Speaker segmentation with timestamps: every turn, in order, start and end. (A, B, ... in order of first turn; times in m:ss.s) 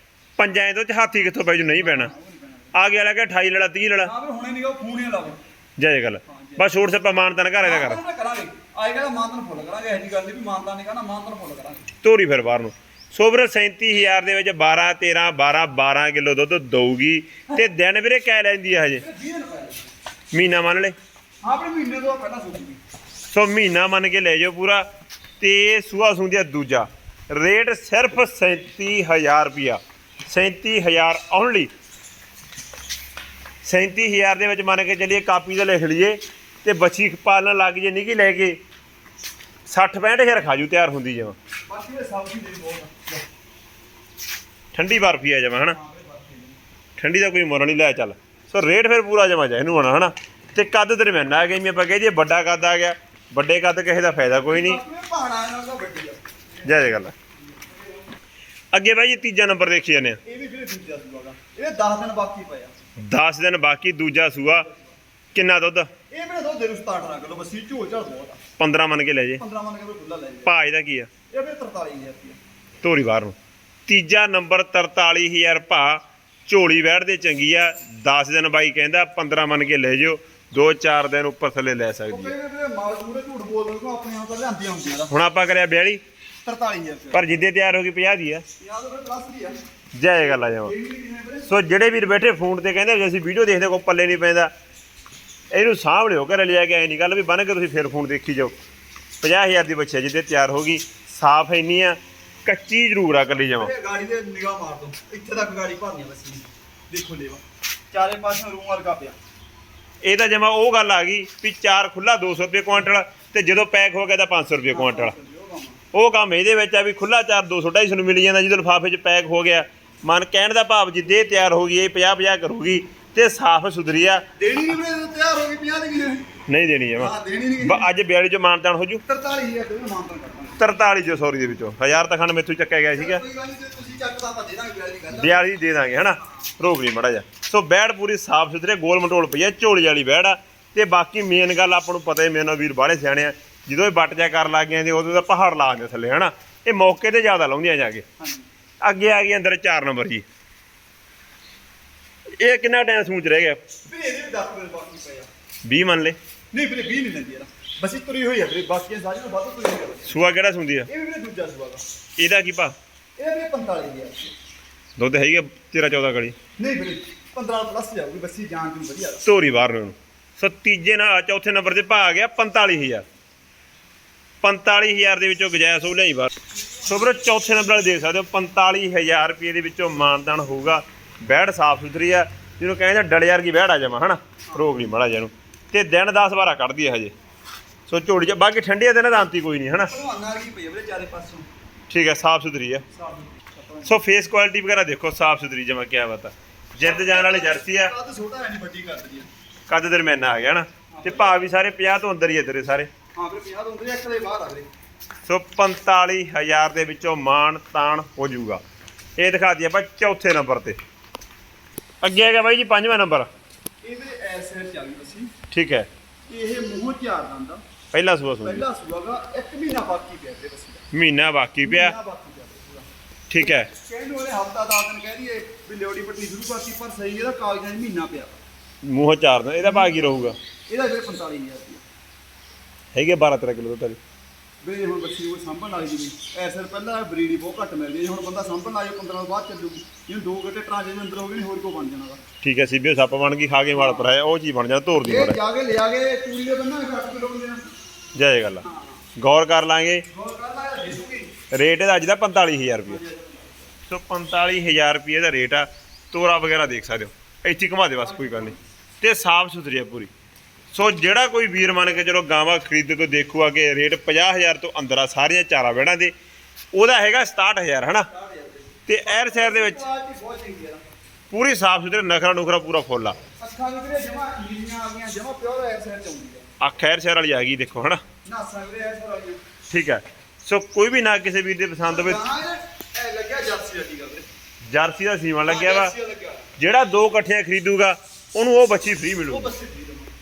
0:00.4-0:02.1 A
0:01.8-0:02.7 B
0:02.7-0:04.1 A
0:04.0-0:05.4 B
0:05.8-0:08.0 A
0:06.3-0:06.7 B
0:07.6-0:11.9 B
0:12.0-0:19.0 A
0:18.9-0:19.9 B
0:20.3-0:21.0 A
0:21.4-0:22.8 B
0:23.3-0:24.8 A
0:25.4-0:31.7 A
0:33.6-0:38.6 A
0:39.7-0:41.4 A
0:41.7-0:43.2 B
0:44.7-0:45.8 A
0:45.7-0:46.6 B
0:47.0-0:54.8 A
0:54.5-0:57.0 B
0:56.6-0:57.1 A
0:57.5-0:57.9 B
0:58.7-1:00.2 A
1:00.2-1:02.8 B
1:03.0-1:04.7 A
1:05.3-1:05.9 A
1:06.1-1:08.4 B
1:08.6-1:09.4 A
1:09.4-1:10.5 B
1:10.4-1:11.1 A
1:11.3-1:12.4 B
1:12.8-1:13.4 A
1:13.9-1:22.3 A
1:22.1-1:25.1 B
1:25.1-1:26.0 A
1:26.4-1:27.4 B
1:27.1-1:28.4 A
1:28.6-1:29.6 B
1:30.0-1:30.7 A
1:30.2-1:31.5 B
1:31.5-1:34.5 A
1:35.5-1:38.6 A
1:39.2-1:43.7 A
1:43.6-1:49.2 B
1:50.0-1:55.2 A
1:54.7-1:55.8 B
1:55.9-2:04.3 A
2:04.4-2:06.3 B
2:06.5-2:09.0 A
2:07.0-2:07.9 B
2:09.1-2:10.6 B
2:10.6-2:13.2 A
2:12.9-2:15.5 B
2:15.1-2:28.0 A
2:28.2-2:28.5 B
2:28.8-2:30.2 A
2:32.4-2:33.6 A
2:33.9-2:35.3 B
2:35.6-2:36.2 A
2:36.5-2:40.2 B
2:40.1-2:40.9 A
2:40.9-2:41.8 B
2:42.2-2:42.8 A
2:43.2-2:44.3 B
2:45.0-2:46.4 A
2:46.6-2:49.2 B
2:49.2-2:53.0 A
2:54.4-3:07.1 A
3:04.5-3:04.8 B
3:07.9-3:09.9 A
3:09.9-3:11.5 B
3:11.9-3:12.8 A
3:12.9-3:14.0 B
3:13.8-3:17.9 A
3:16.8-3:19.3 B
3:19.7-3:22.9 A
3:20.9-3:21.4 B
3:23.2-3:24.7 B
3:25.3-3:28.6 A
3:29.2-3:30.8 A
3:32.0-3:33.3 A
3:33.8-3:35.3 B
3:35.5-3:35.9 A
3:36.3-3:37.6 B
3:37.9-3:38.6 A
3:38.4-3:40.8 B
3:40.9-3:42.0 A
3:41.6-3:48.4 B
3:43.3-3:43.7 A
3:48.8-3:50.4 A
3:49.6-3:51.8 B
3:52.9-3:54.0 A
3:54.6-4:02.2 B
4:02.4-4:05.4 A
4:03.7-4:04.1 B
4:05.0-4:07.7 B
4:08.2-4:08.6 A
4:08.6-4:09.0 B
4:09.2-4:10.0 A
4:10.1-4:11.3 B
4:11.5-4:13.0 A
4:12.8-4:13.7 B
4:13.9-4:20.1 A
4:18.0-4:18.6 B
4:20.7-4:26.1 A
4:26.7-4:28.1 A
4:28.1-4:30.8 B
4:28.9-4:29.8 A
4:31.3-4:33.2 A
4:33.4-4:36.4 B
4:36.6-4:38.0 A
4:38.2-4:39.4 B
4:39.7-4:42.2 A
4:41.9-4:44.3 B
4:44.7-4:45.9 A
4:45.4-4:46.5 B
4:46.6-4:49.5 A
4:49.3-4:50.1 B